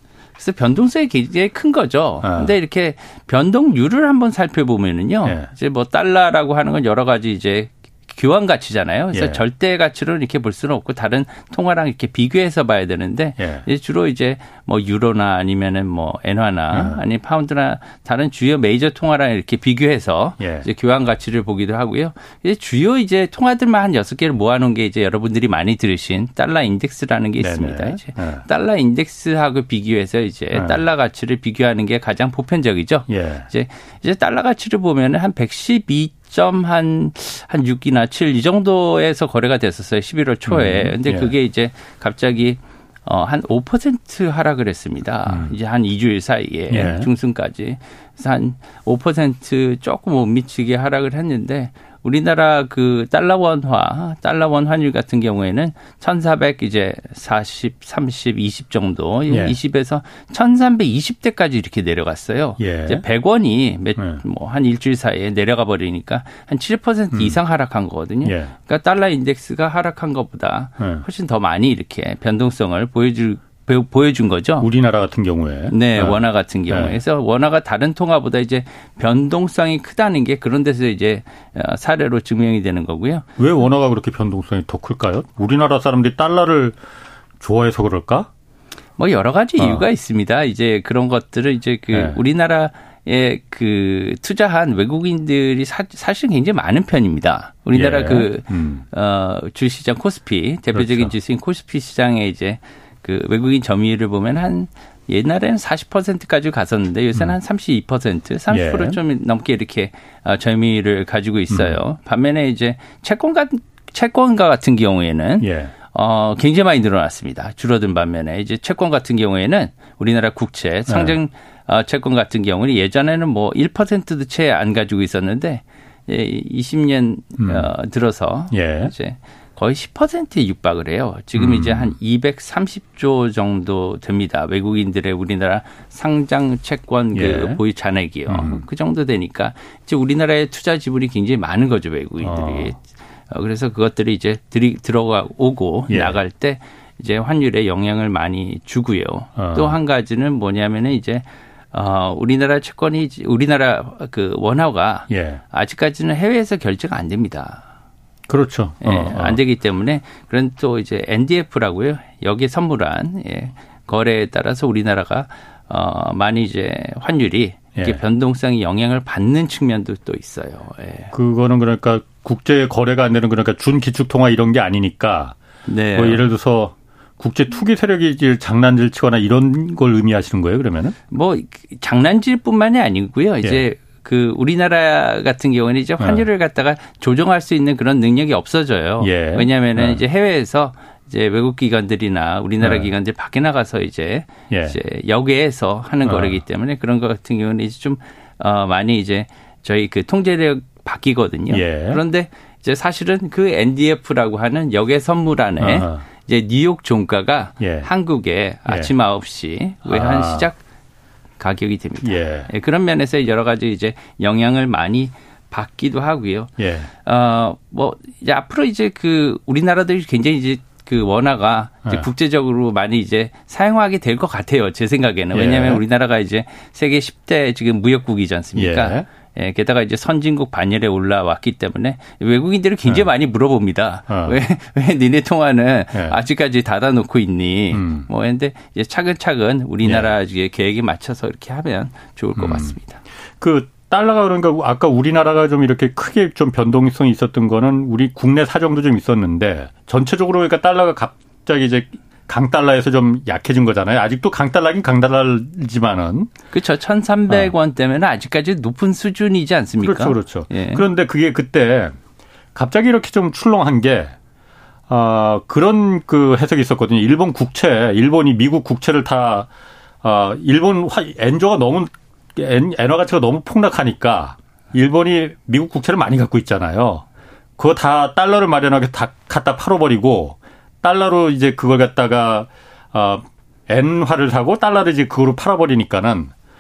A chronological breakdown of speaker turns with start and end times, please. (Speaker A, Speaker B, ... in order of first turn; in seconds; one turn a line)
Speaker A: 0.4-74.7
Speaker B: 2.2-2.5
Speaker B: 9.1-9.4
Speaker B: 13.4-13.7
Speaker B: 16.7-17.0
Speaker B: 20.4-20.7
Speaker B: 27.4-28.4
Speaker B: 33.1-33.5
Speaker B: 40.5-41.3
Speaker B: 45.3-45.5
Speaker B: 46.7-47.1
Speaker B: 59.3-59.5
Speaker B: 62.6-63.0
Speaker B: 67.1-67.4
Speaker B: 68.2-68.5
Speaker B: 74.6-77.0
Speaker A: 75.7-83.3
Speaker B: 83.4-86.8
Speaker B: 87.4-88.3
Speaker A: 89.0-157.6
Speaker B: 89.6-89.9
Speaker B: 91.9-92.2
Speaker B: 97.7-98.8
Speaker B: 100.7-101.1
Speaker B: 108.5-109.0
Speaker B: 111.5-111.8
Speaker B: 115.4-115.7
Speaker B: 120.9-121.2
Speaker B: 127.4-127.7
Speaker B: 128.5-128.9
Speaker B: 131.4-131.9
Speaker B: 137.1-137.6
Speaker B: 138.3-138.6
Speaker B: 142.2-142.7
Speaker B: 145.9-146.2
Speaker B: 149.4-149.8
Speaker B: 155.1-155.4
Speaker B: 158.3-159.4
Speaker A: 158.8-171.1
Speaker B: 171.1-175.4
Speaker A: 175.7-176.3
Speaker B: 175.9-181.0
Speaker A: 181.1-210.6
Speaker B: 189.0-190.0
Speaker B: 192.6-192.9
Speaker B: 194.5-194.8
Speaker B: 196.1-196.4
Speaker B: 201.5-202.0
Speaker B: 205.6-206.0
Speaker B: 207.6-207.9
Speaker B: 209.9-210.5
Speaker A: 211.4-243.0
Speaker B: 212.0-212.5
Speaker B: 216.6-216.9
Speaker B: 225.3-225.8
Speaker B: 228.6-229.1
Speaker B: 234.1-234.4
Speaker B: 237.7-238.1
Speaker B: 239.8-240.1
Speaker B: 242.4-242.8
Speaker B: 243.4-256.3
Speaker A: 256.5-260.8
Speaker B: 259.8-262.0
Speaker B: 262.6-264.1
Speaker B: 264.9-269.5
Speaker B: 270.0-277.1
Speaker B: 277.6-286.3